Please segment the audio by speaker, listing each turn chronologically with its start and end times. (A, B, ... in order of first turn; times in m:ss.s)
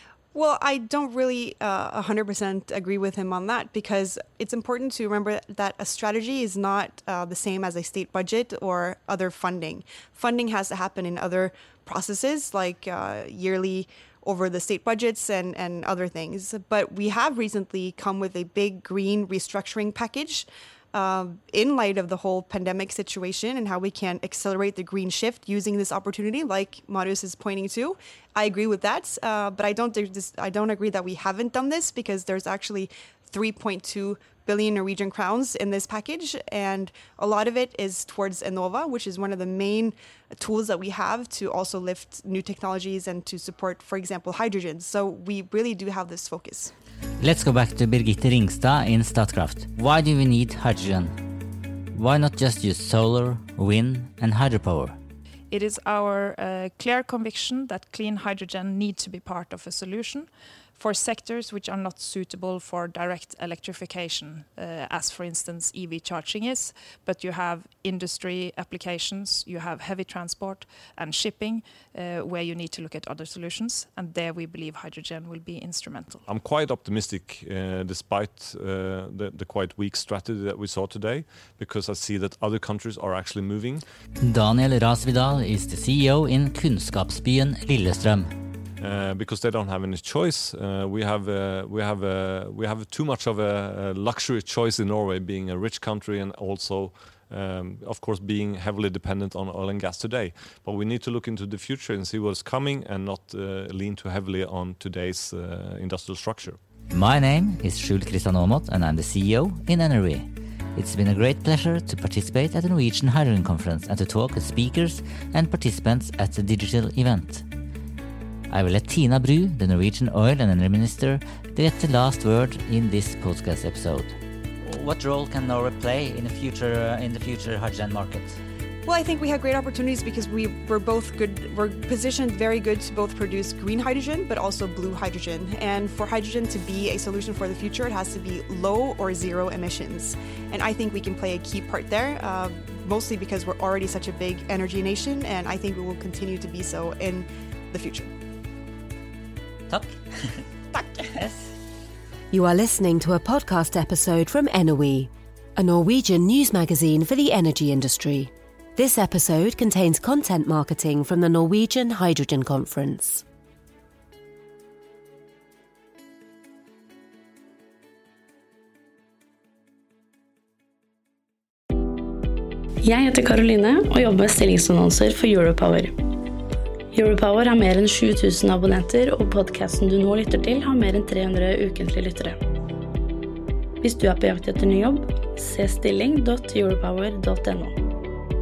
0:00.3-0:46.7 A
0:47.2-0:51.1 B
0:51.9-0:55.0 B
0:55.5-1:16.2 C
1:16.3-1:23.8 D
1:24.2-1:28.3 B
1:28.8-1:46.6 D
1:46.9-1:57.4 B
1:58.5-2:04.1 B
2:04.6-2:08.4 B
2:08.8-2:28.1 A
2:32.3-2:43.2 E
2:52.8-2:55.9 F
2:56.9-3:02.4 F
3:03.8-3:07.8 F